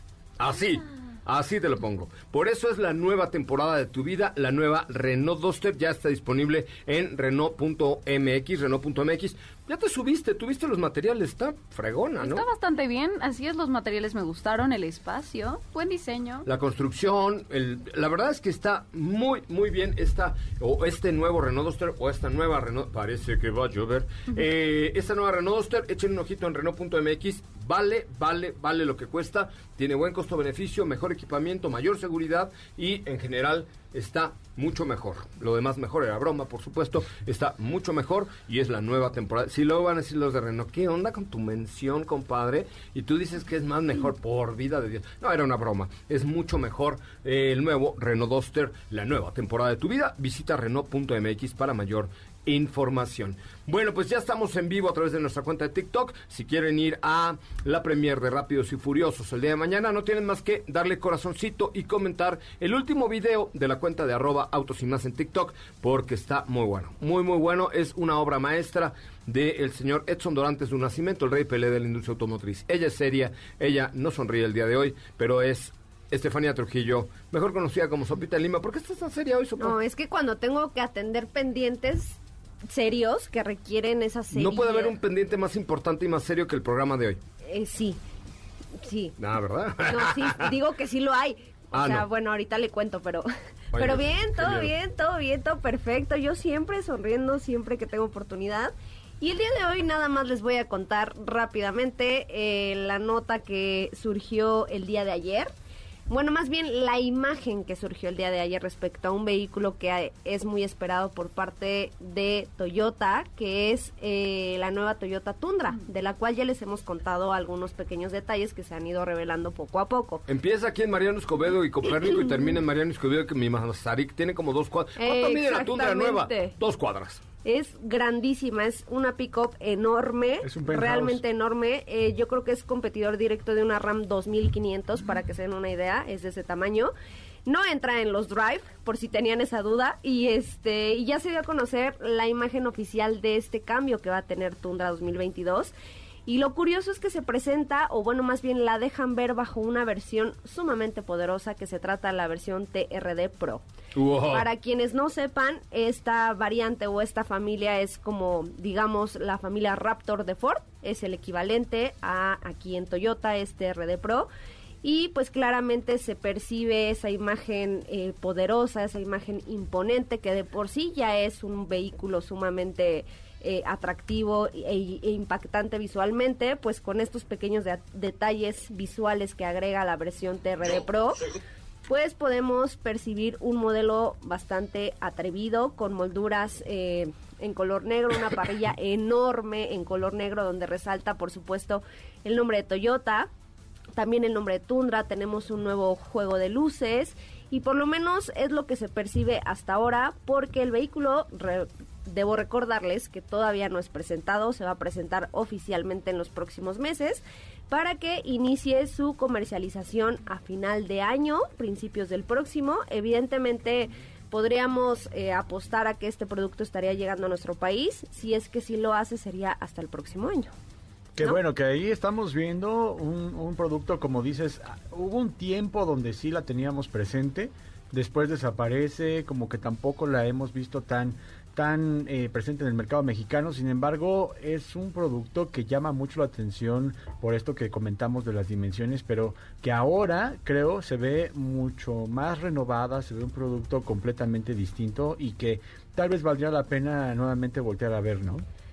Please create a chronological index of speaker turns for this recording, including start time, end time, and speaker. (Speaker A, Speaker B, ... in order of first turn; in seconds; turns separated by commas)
Speaker A: 0.4-12.5, Speaker B: 12.2-16.5, Speaker A: 16.4-79.8, Speaker C: 79.6-85.0, Speaker A: 84.3-87.2, Speaker C: 87.4-88.0, Speaker C: 88.8-89.1, Speaker A: 89.2-90.5, Speaker C: 89.8-105.5, Speaker A: 91.7-92.1, Speaker A: 93.7-94.7, Speaker C: 106.1-120.2, Speaker A: 120.3-127.2, Speaker C: 125.0-126.5, Speaker C: 127.4-136.9, Speaker D: 130.4-131.2, Speaker C: 137.4-145.7, Speaker C: 146.2-153.6, Speaker A: 153.9-154.5, Speaker C: 154.3-164.3, Speaker C: 164.8-181.3, Speaker C: 181.9-193.3, Speaker C: 193.9-220.5, Speaker D: 221.2-248.4